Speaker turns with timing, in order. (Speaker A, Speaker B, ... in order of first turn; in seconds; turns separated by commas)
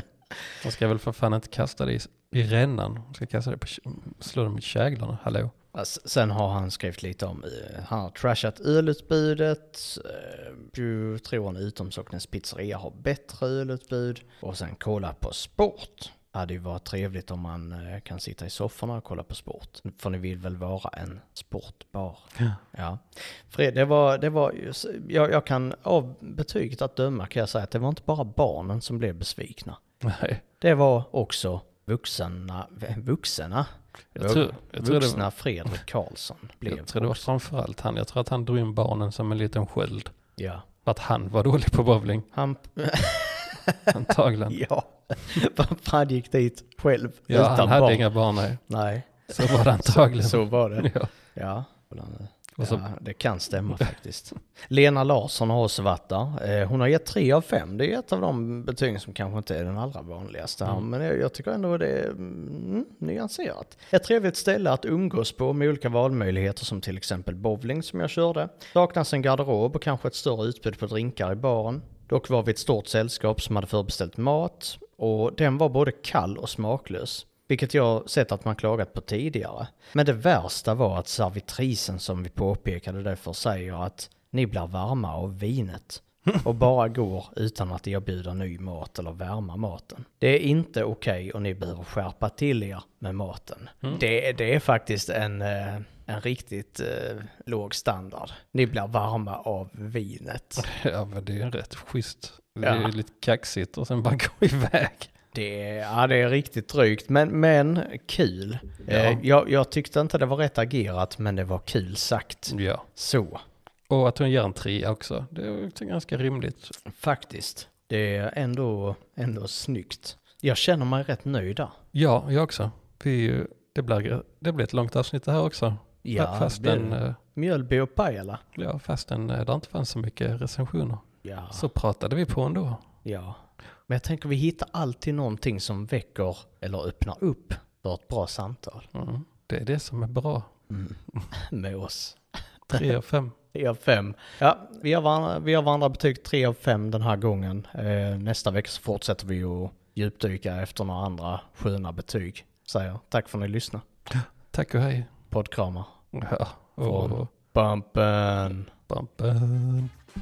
Speaker A: 0.6-5.5, Speaker B: 5.7-29.8, Speaker A: 30.0-30.4, Speaker B: 30.6-37.2, Speaker A: 34.2-35.2, Speaker A: 36.7-40.1, Speaker B: 40.4-40.6, Speaker A: 40.9-42.3, Speaker B: 42.3-44.0, Speaker A: 43.9-44.6, Speaker B: 44.5-48.1, Speaker A: 47.3-48.6, Speaker B: 48.7-100.7, Speaker A: 49.3-51.1, Speaker A: 52.6-52.8, Speaker A: 100.6-105.1, Speaker B: 102.6-102.9, Speaker B: 105.3-113.4, Speaker A: 108.9-109.2, Speaker A: 112.5-112.9, Speaker A: 113.9-116.8, Speaker B: 116.9-121.7, Speaker A: 121.9-127.2, Speaker B: 126.0-128.4, Speaker A: 128.6-132.8, Speaker B: 131.2-131.7, Speaker B: 133.1-138.9, Speaker A: 138.9-140.5, Speaker B: 140.7-142.2, Speaker A: 142.7-143.4, Speaker B: 143.5-153.8, Speaker A: 154.1-155.1, Speaker B: 155.3-155.9, Speaker A: 156.1-157.3, Speaker B: 156.8-158.7, Speaker A: 158.9-159.9